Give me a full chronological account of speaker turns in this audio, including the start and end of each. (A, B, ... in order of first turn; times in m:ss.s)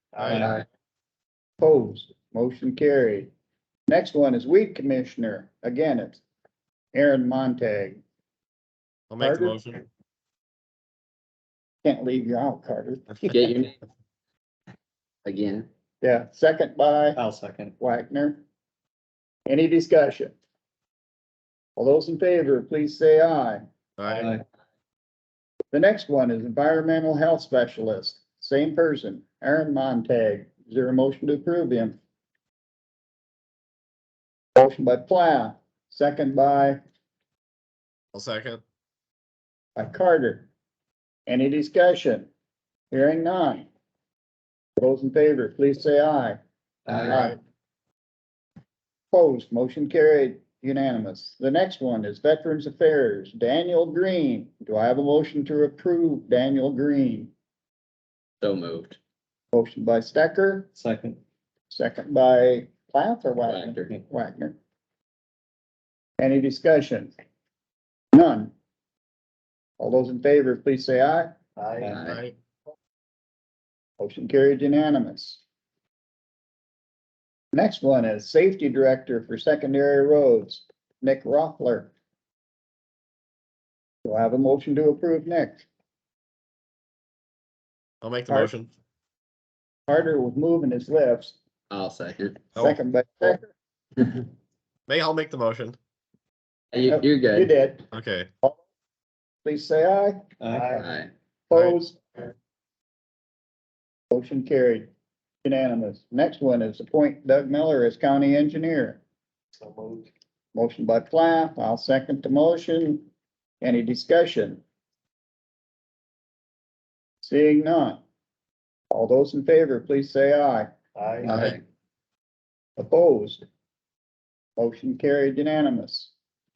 0:00.2-0:00.5 A
0:00.2-0:00.5 B
0:00.2-0:00.5 C
0:01.6-0:03.3 C
0:03.9-0:06.2 C
0:06.9-0:08.0 C
0:09.1-0:09.8 B
0:09.2-0:09.6 C
0:11.8-0:13.3 C
0:13.3-0:13.7 D
0:15.2-0:15.7 D
0:16.0-0:17.2 C
0:17.1-0:17.7 A
0:17.8-0:18.4 C
0:19.5-0:20.4 C
0:21.8-0:23.6 C
0:24.0-0:24.3 B
0:24.1-0:24.4 A
0:25.7-0:32.0 C
0:34.6-0:36.8 C
0:38.1-0:38.6 B
0:39.8-0:40.5 C
0:41.3-0:42.3 C
0:42.9-0:43.7 C
0:44.8-0:46.4 C
0:46.9-0:47.3 D
0:47.0-0:47.4 C
0:49.1-0:57.3 C
0:58.4-0:59.0 D
0:59.5-1:00.7 C
1:00.7-1:01.2 A
1:01.7-1:04.6 C
1:03.4-1:04.0 D
1:06.2-1:07.1 C
1:08.1-1:08.5 C
1:09.8-1:11.4 C
1:11.6-1:12.0 A
1:11.8-1:12.2 D
1:12.0-1:12.3 B
1:14.0-1:15.4 C
1:17.5-1:21.9 C
1:24.0-1:25.6 C
1:28.0-1:28.7 B
1:29.9-1:31.4 C
1:31.7-1:32.5 D
1:32.6-1:33.5 C
1:34.0-1:34.2 D
1:34.9-1:35.8 B
1:36.7-1:37.5 D
1:36.9-1:37.9 C
1:37.9-1:38.3 B
1:39.4-1:40.2 C
1:40.4-1:40.8 A
1:40.7-1:41.1 D
1:41.5-1:42.0 C
1:41.5-1:41.8 B
1:44.1-1:44.9 C
1:45.4-1:49.0 C
1:49.6-1:50.0 A
1:50.5-1:53.1 C
1:53.6-1:54.6 C
1:57.2-1:58.0 C
1:58.9-2:00.7 C
2:01.0-2:01.3 A
2:01.2-2:01.6 C
2:01.2-2:01.6 D
2:02.8-2:03.4 C
2:04.6-2:06.1 C